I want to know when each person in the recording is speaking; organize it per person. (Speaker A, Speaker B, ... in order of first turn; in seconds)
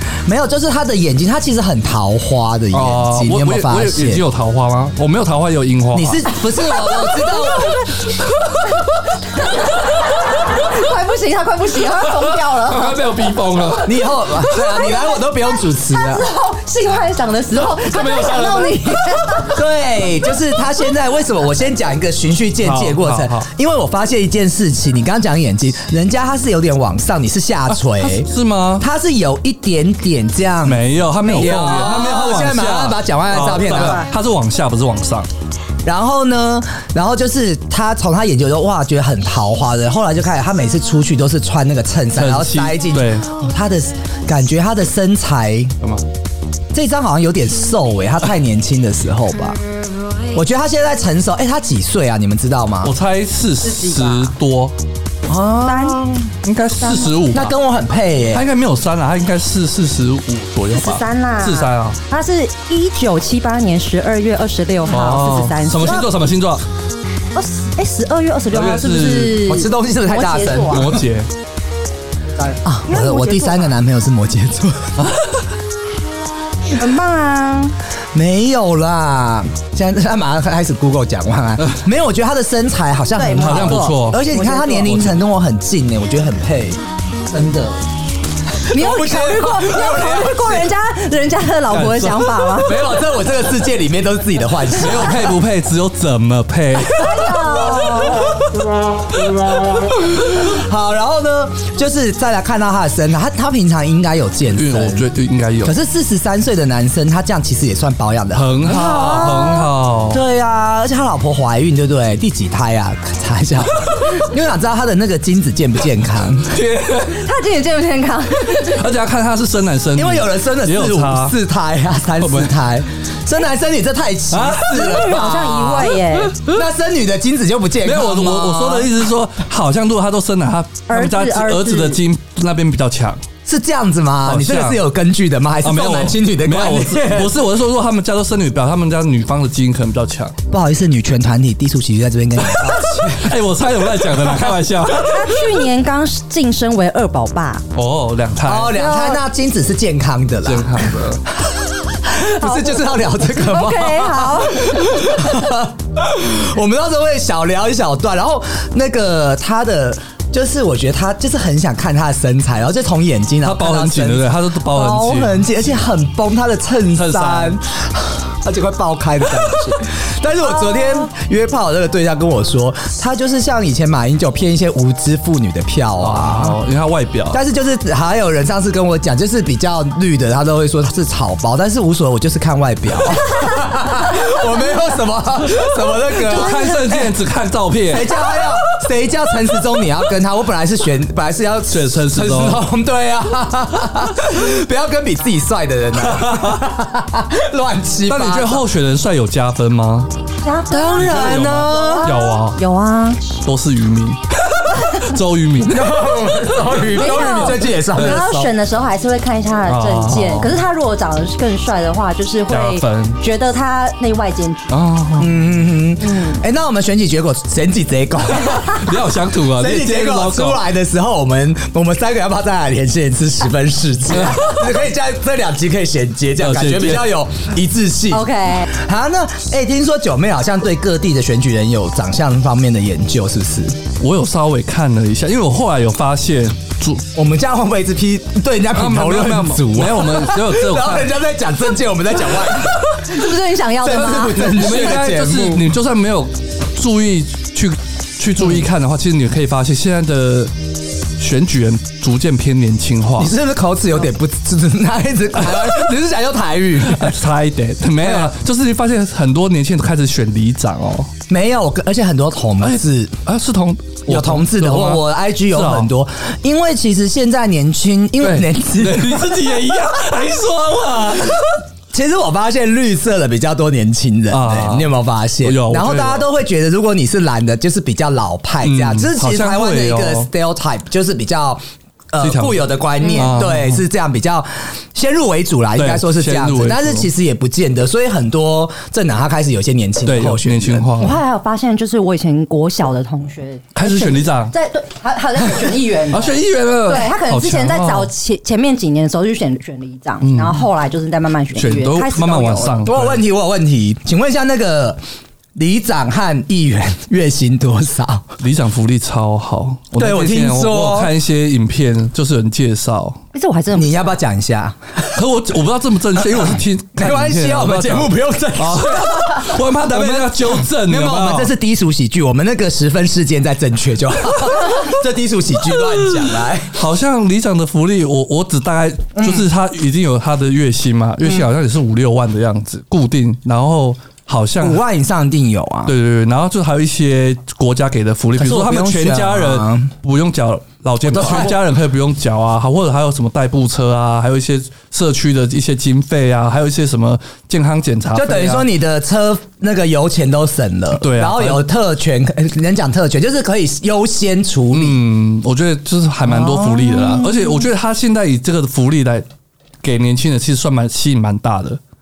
Speaker A: 0.3-4.2, 5.9-7.8, 13.8-16.3, 19.4-34.1, 35.9-45.8, 46.7-49.6, 50.3-52.9, 55.3-56.3, 57.3-58.5, 69.5-71.0, 72.6-75.0, 78.1-87.8, 88.6-90.7, 92.6-95.3, 100.2-105.1, 105.6-116.6, 119.9-125.9, 126.4-128.9, 133.5-137.3, 140.5-143.3, 148.4-176.6, 177.3-187.2, 187.9-198.7, 200.7-202.1, 205.7-208.5, 215.2-218.9, 219.5-233.8, 237.1-243.0, 243.8-245.7, 253.2-257.2, 258.0-258.3, 261.3-263.2, 264.1-269.5, 271.9-281.6, 282.1-291.0, 302.8-305.0, 305.6-308.4, 309.9-311.1, 313.7-315.0, 316.3-326.8, 329.1-329.5, 334.6-335.9, 338.4-339.9, 341.0-341.6, 348.1-355.0, 356.3-357.4
Speaker B: 2.7-6.3, 12.2-14.0, 17.6-19.0, 22.6-23.5, 27.7-28.9, 30.6-35.3, 42.1-43.3, 45.8-46.0, 52.8-54.7, 56.4-57.5, 58.3-62.0, 64.9-66.7, 68.5-69.4, 70.7-71.3, 75.0-75.3, 83.4-84.2, 84.8-85.2, 91.7-92.6, 94.7-98.5, 104.5-105.8, 108.3-110.2, 116.5-117.2, 118.3-121.4, 122.2-122.5, 124.3-126.5, 127.8-133.2, 134.2-134.8, 135.6-140.3, 142.4-145.5, 147.7-148.8, 150.4-151.2, 163.4-165.4, 166.9-167.6, 176.0-177.4, 186.2-188.7, 191.7-192.7, 196.0-196.7, 198.1-200.1, 201.0-202.6, 203.4-206.1, 209.7-210.6, 212.5-213.2, 214.7-215.3, 218.3-220.6, 226.4-227.1, 234.0-237.1, 238.7-241.2, 244.3-250.5, 251.2-253.3, 255.4-255.9, 256.8-261.1, 262.6-265.9, 268.2-271.6, 274.3-276.3, 278.6-280.3, 282.2-283.9, 285.8-287.1, 290.1-291.2, 293.8-294.5, 295.5-298.1, 300.2-300.7, 301.6-303.2, 308.4-313.2, 315.1-321.6, 325.7-334.8, 335.9-348.7, 350.9-351.6, 354.7-359.3, 359.8-361.8
Speaker C: 6.6-13.1, 14.4-19.6, 33.5-34.0, 53.6-54.3, 55.6-56.0, 56.8-57.2, 60.7-66.1, 67.3-71.0, 72.4-73.8, 76.7-77.8, 83.2-84.9, 88.7-92.9, 96.8-98.3, 108.7-109.7, 117.0-118.8, 124.7-126.4, 130.9-132.0, 145.0-147.6, 148.7-149.2, 152.4-155.3, 170.6-171.1, 186.3-186.8, 200.4-203.2, 206.8-214.7, 216.0-216.4, 228.1-228.7, 242.9-244.8, 283.0-283.4, 291.0-302.8, 313.3-314.1